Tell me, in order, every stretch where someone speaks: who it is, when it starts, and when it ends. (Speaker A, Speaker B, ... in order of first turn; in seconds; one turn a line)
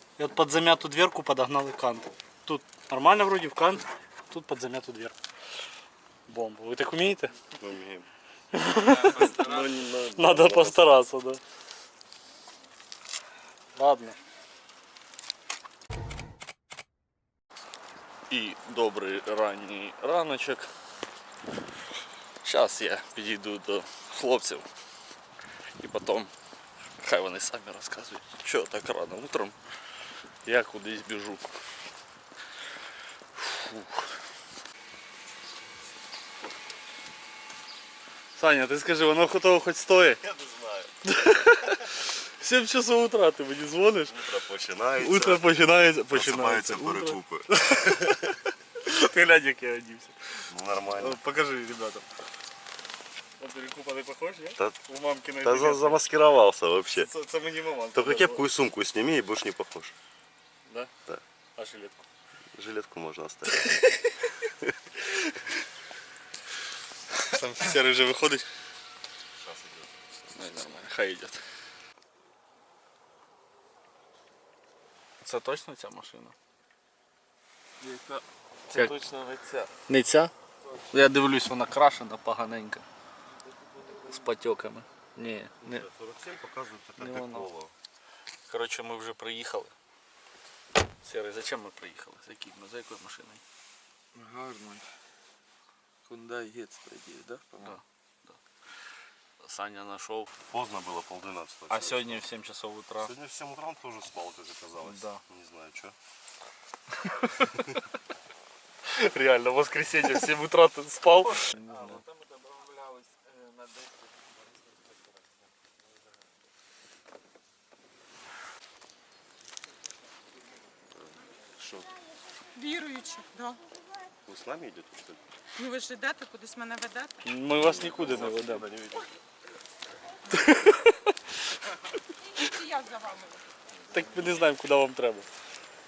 Speaker A: 0.2-5.2
Speaker A: 6.3-7.3
Speaker B: 7.5-8.1
Speaker A: 8.5-9.3
Speaker C: 8.7-9.8
Speaker B: 9.0-11.0
Speaker A: 10.1-11.4
Speaker A: 13.8-14.2
Speaker A: 18.3-20.7
Speaker A: 22.4-24.7
Speaker A: 25.8-26.3
Speaker A: 27.0-29.6
Speaker A: 30.4-31.5
Speaker A: 33.4-34.0
Speaker A: 38.4-40.2
Speaker B: 40.1-40.9
Speaker A: 41.0-44.2
Speaker B: 44.1-47.5
Speaker A: 45.0-50.1
Speaker B: 50.5-51.2
Speaker A: 51.0-52.0
Speaker A: 53.4-56.1
Speaker B: 55.4-57.1
Speaker A: 56.9-58.5
Speaker B: 57.9-59.9
Speaker A: 61.6-62.0
Speaker B: 62.5-63.7
Speaker A: 63.5-64.1
Speaker A: 65.0-65.4
Speaker A: 67.2-68.4
Speaker B: 69.3-70.6
Speaker A: 70.3-71.4
Speaker A: 75.2-76.3
Speaker C: 77.8-79.7
Speaker A: 79.9-80.3
Speaker A: 80.9-82.8
Speaker C: 83.8-84.1
Speaker A: 84.1-85.9
Speaker B: 85.6-87.7
Speaker A: 87.0-87.5
Speaker A: 88.5-89.7
Speaker A: 91.0-93.4
Speaker C: 94.1-94.9
Speaker C: 96.1-97.8
Speaker A: 97.6-98.3
Speaker A: 99.4-100.3
Speaker B: 100.5-102.3
Speaker A: 101.7-103.1
Speaker B: 103.0-106.0
Speaker A: 104.8-105.2
Speaker A: 107.0-107.7
Speaker A: 108.9-111.5
Speaker C: 111.3-115.3
Speaker B: 120.9-121.9
Speaker D: 122.5-123.6
Speaker B: 124.3-125.2
Speaker D: 125.6-127.2
Speaker A: 127.2-128.7
Speaker B: 127.5-129.1
Speaker A: 130.3-131.1
Speaker D: 132.4-133.4
Speaker A: 133.9-135.3